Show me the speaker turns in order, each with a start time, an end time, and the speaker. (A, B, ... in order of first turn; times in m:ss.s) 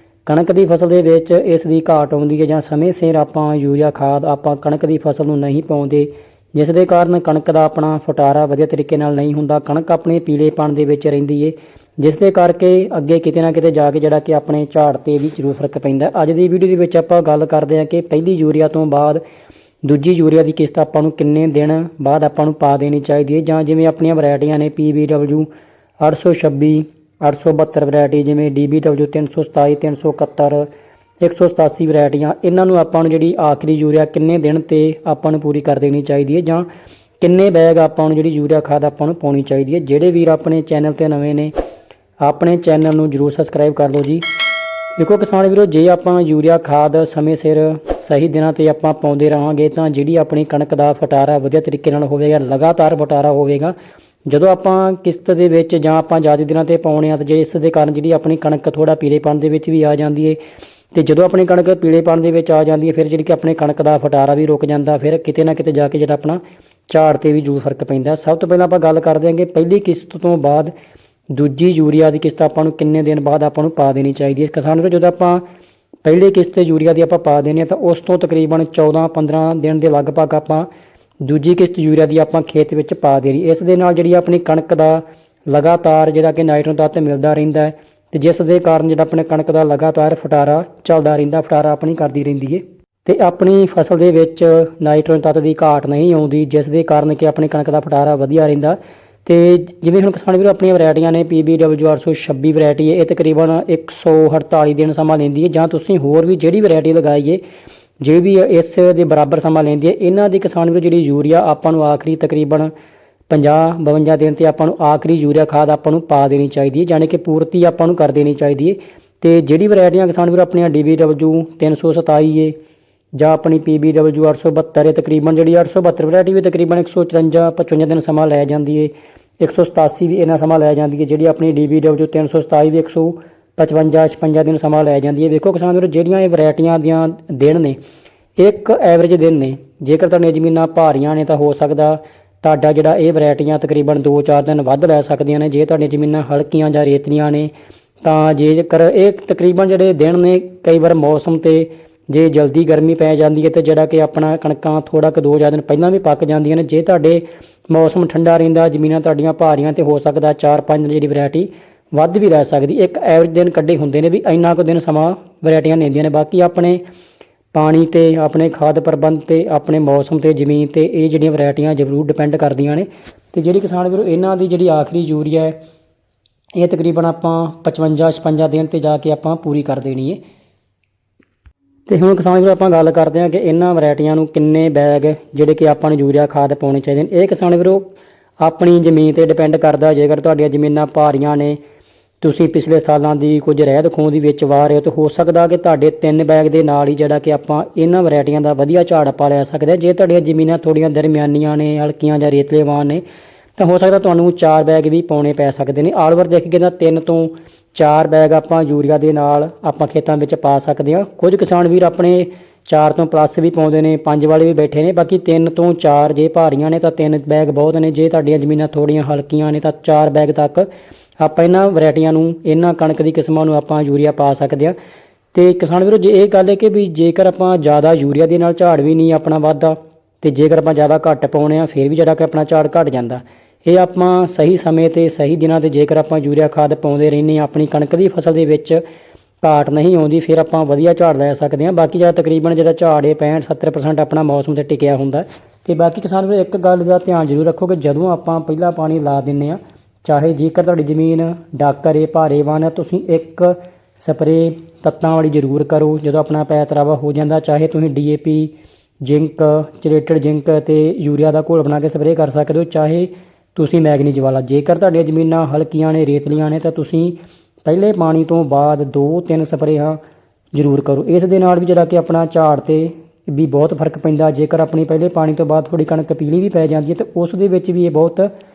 0:00.2-0:19.2 A
0:19.8-0:25.5 A
0:26.0-0:30.7 A
0:31.2-0:36.7 A
0:37.2-0:41.5 A
0:42.2-0:44.2 A
0:45.0-0:53.7 A
0:54.3-1:00.4 A
1:00.9-1:10.7 A
1:11.3-1:15.4 A
1:16.0-1:20.7 A
1:21.2-1:47.4 A
1:48.0-1:52.7 A
1:53.3-2:02.5 A
2:03.2-2:17.8 A
2:18.4-2:27.5 A
2:28.0-2:46.8 A
2:47.5-2:55.6 A
2:56.6-3:00.2 A
3:01.9-3:11.6 A
3:12.2-3:23.0 A
3:23.6-3:40.7 A
3:41.2-3:44.8 A
3:45.3-3:58.8 A
3:59.4-4:30.0 A
4:30.5-4:38.3 A